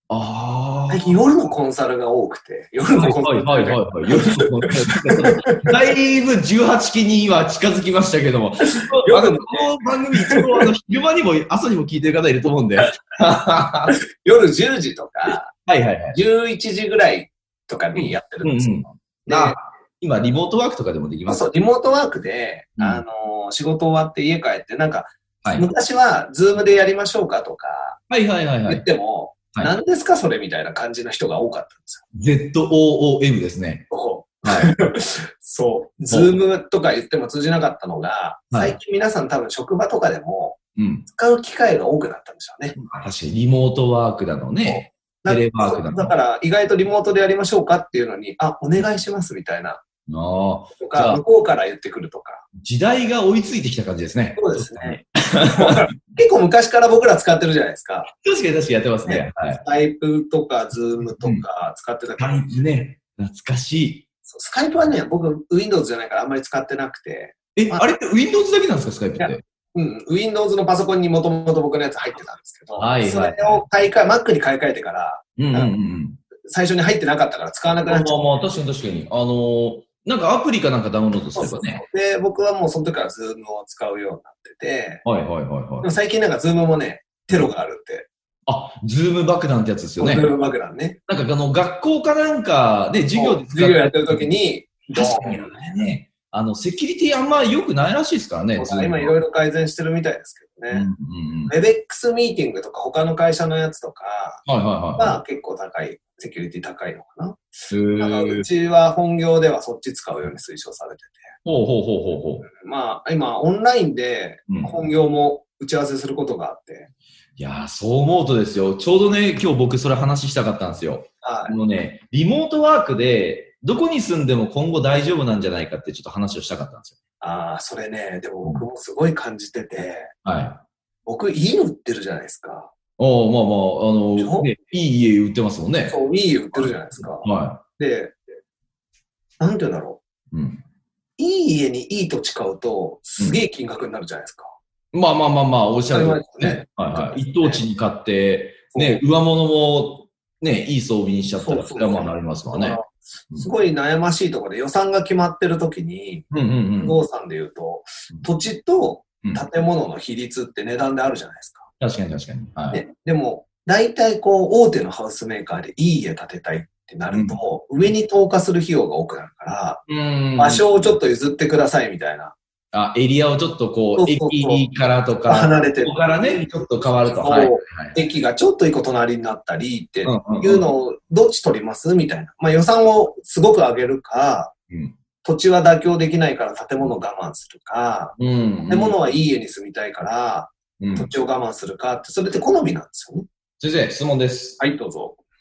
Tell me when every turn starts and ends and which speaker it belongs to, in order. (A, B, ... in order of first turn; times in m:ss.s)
0:00.1-0:01.2 A
0:00.9-0:04.7 B
0:02.9-0:14.0 A
0:05.2-0:05.6 B
0:08.7-0:10.4 B
0:14.1-0:15.5 B
0:15.5-0:16.2 A
0:16.1-0:19.6 B
0:18.0-0:21.5 A
0:21.3-0:28.0 B
0:22.8-0:23.0 A
0:25.4-0:25.7 A
0:28.1-0:28.9 A
0:28.7-0:32.0 B
0:32.1-0:33.9 A
0:33.9-0:42.8 B
0:34.4-0:34.7 A
0:36.1-0:36.4 A
0:38.5-0:38.8 A
0:40.8-0:41.1 A
0:42.8-0:46.2 A
0:44.6-0:49.8 B
0:50.1-0:51.2 A
0:50.8-0:52.4 B
0:52.6-0:55.9 A
0:54.4-0:58.1 B
0:58.1-0:59.6 A
0:59.1-1:02.5 B
1:02.2-1:04.1 A
1:04.2-1:07.9 B
1:07.6-1:09.4 A
1:09.2-1:15.7 B
1:12.8-1:13.7 A
1:15.4-1:16.2 A
1:16.4-1:18.2 B
1:17.9-1:21.8 A
1:21.4-1:25.0 B
1:25.0-1:25.9 A
1:25.8-1:28.1 B
1:28.5-1:30.4 A
1:30.0-1:31.0 B
1:31.1-1:34.3 A
1:33.1-1:35.5 B
1:34.9-1:39.1 A
1:38.6-1:40.9 B
1:40.7-1:41.5 A
1:41.5-1:44.5 B
1:44.4-1:45.2 A
1:45.0-1:51.3 B
1:47.7-1:48.5 A
1:51.4-1:52.5 A
1:52.4-1:56.9 B
1:54.5-1:54.7 A
1:57.4-2:07.0 A
2:01.2-2:01.6 B
2:07.2-2:10.1 B
2:10.2-2:10.6 A
2:11.0-2:12.7 B
2:13.0-2:16.0 A
2:14.2-2:14.5 B
2:15.9-2:18.2 B
2:16.5-2:17.6 A
2:19.4-2:20.0 B
2:20.3-2:20.6 A
2:21.2-2:24.6 B
2:24.9-2:32.8 A
2:25.9-2:27.6 B
2:28.7-2:29.0 B
2:31.4-2:41.7 B
2:36.3-2:37.0 A
2:41.8-2:42.8 A
2:42.7-2:52.4 B
2:47.1-2:47.9 A
2:49.9-2:51.0 A
2:52.7-2:58.0 A
2:54.0-2:54.7 B
2:55.2-3:04.5 B
3:00.0-3:00.7 A
3:04.7-3:05.0 A
3:05.2-3:13.3 B
3:08.2-3:09.0 A
3:10.8-3:11.1 A
3:13.6-3:14.6 A
3:14.6-3:15.2 B